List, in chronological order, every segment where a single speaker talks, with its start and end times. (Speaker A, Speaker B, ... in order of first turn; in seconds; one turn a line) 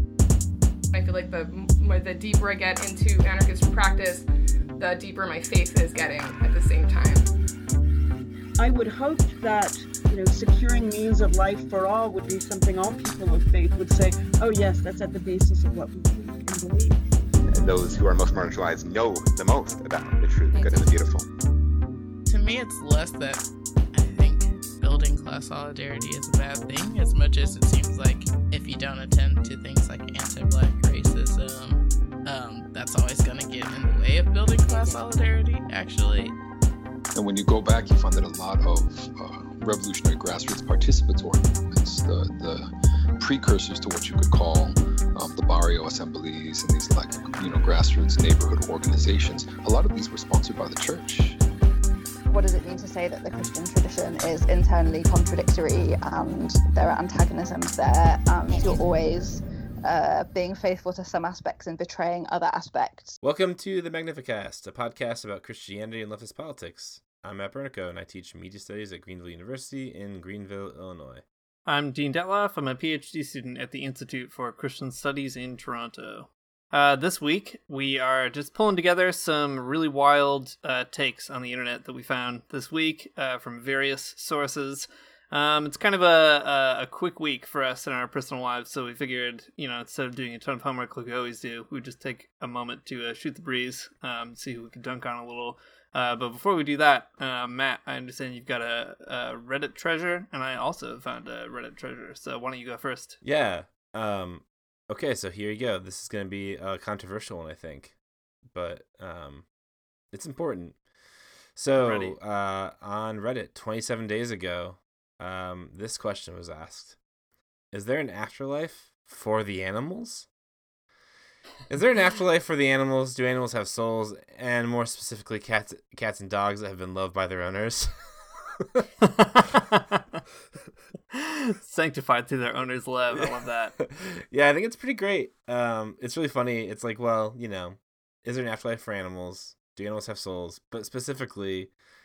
Speaker A: 0.9-4.2
Speaker A: 4.8-7.3
Speaker B: 8.6-17.0
Speaker C: 17.5-21.3
Speaker D: 22.3-36.4
Speaker E: 37.1-42.6
Speaker E: 43.2-51.4
Speaker F: 52.3-63.2
Speaker G: 63.2-71.2
Speaker H: 71.7-103.2
Speaker G: 103.2-108.0
Speaker G: 108.5-109.5
Speaker G: 110.1-110.8
Speaker G: 111.6-117.0
Speaker H: 111.8-112.2
Speaker G: 117.7-120.3
Speaker G: 121.7-128.9
Speaker H: 129.4-130.0
Speaker H: 131.1-133.8
Speaker G: 133.8-141.7